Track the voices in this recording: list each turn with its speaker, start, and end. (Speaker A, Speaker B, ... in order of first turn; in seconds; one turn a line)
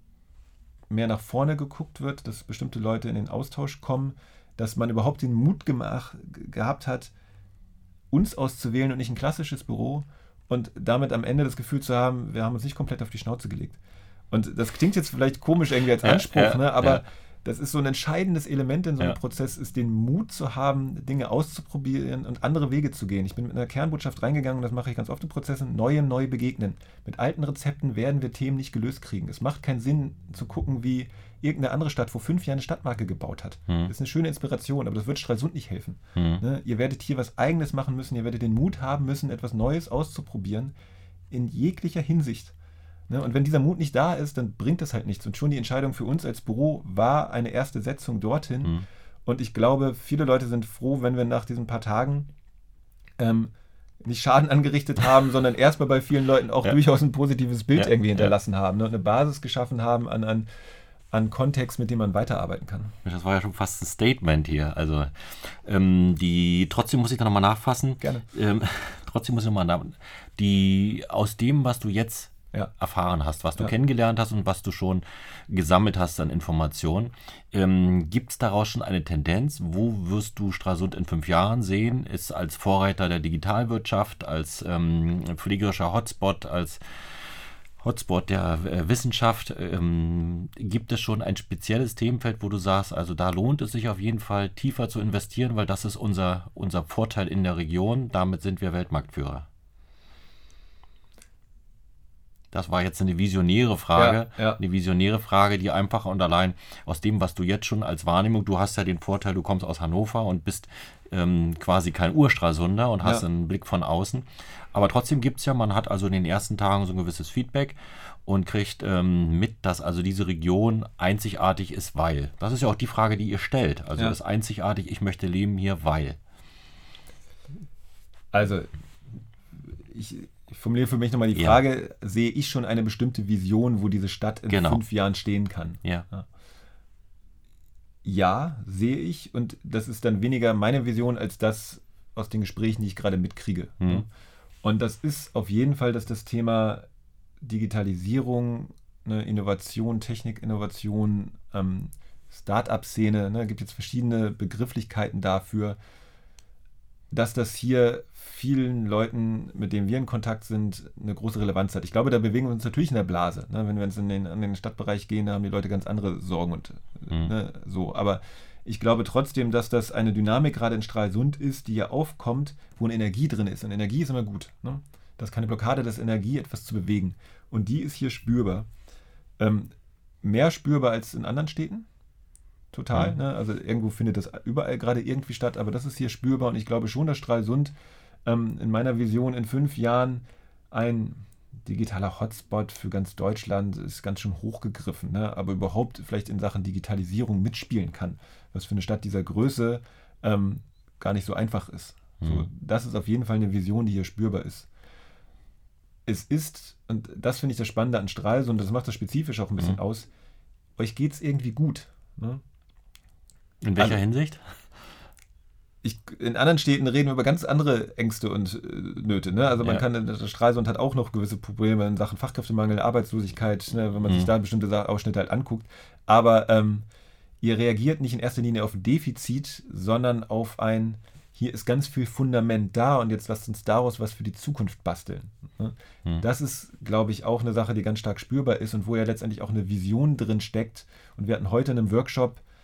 Speaker A: 0.9-7.1
Speaker A: 8.1-13.8
Speaker A: 14.3-40.7
Speaker B: 16.0-17.0
Speaker B: 36.1-36.4
Speaker A: 41.3-42.5
Speaker A: 43.1-52.3
Speaker A: 53.2-53.5
Speaker A: 54.0-60.5
Speaker B: 57.8-58.3
Speaker A: 61.1-62.9
Speaker B: 63.0-99.5
Speaker A: 68.0-68.2
Speaker B: 102.5-126.2
Speaker A: 103.9-104.6
Speaker A: 128.3-128.7
Speaker A: 129.7-136.2
Speaker B: 131.3-131.6
Speaker B: 134.5-134.8
Speaker A: 138.0-144.1
Speaker A: 144.6-146.8
Speaker A: 147.4-155.8
Speaker A: 157.1-178.7
Speaker A: 179.4-179.7
Speaker A: 180.2-181.9
Speaker A: 182.7-187.7
Speaker A: 188.2-204.7
Speaker B: 202.2-202.5
Speaker A: 206.1-210.1
Speaker A: 210.8-212.4
Speaker B: 213.6-214.6
Speaker A: 215.8-226.8
Speaker A: 227.4-242.4